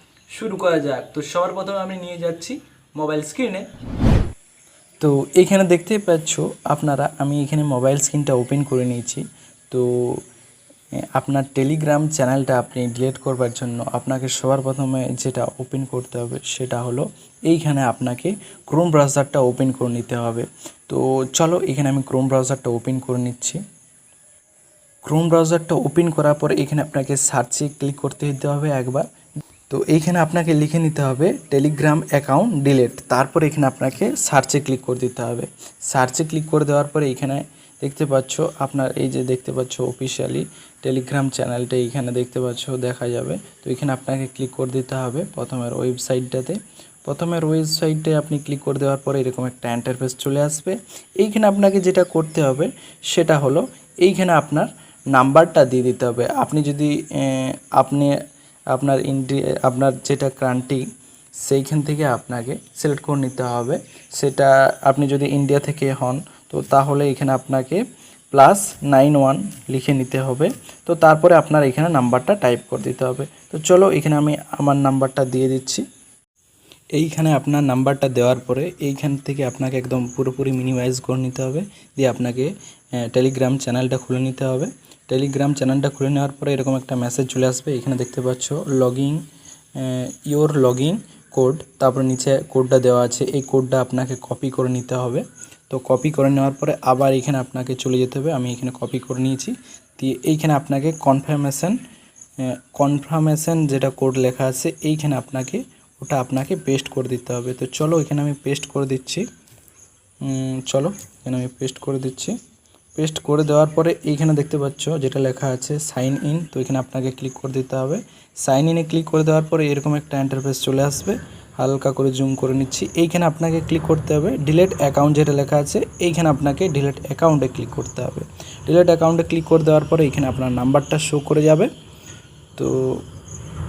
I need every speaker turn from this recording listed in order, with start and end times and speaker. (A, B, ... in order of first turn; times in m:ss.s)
0:00.3-0:03.7 A
0:05.0-0:10.2 A
0:11.1-0:23.6 A
0:25.0-0:29.0 A
0:29.7-0:58.2 A
0:58.7-1:00.8 A
1:01.4-1:07.8 A
1:08.3-1:15.8 A
1:16.9-1:29.2 A
1:29.8-1:41.8 A
1:42.4-1:49.2 A
1:50.2-1:52.3 A
1:53.0-2:11.7 A
2:12.6-2:13.0 A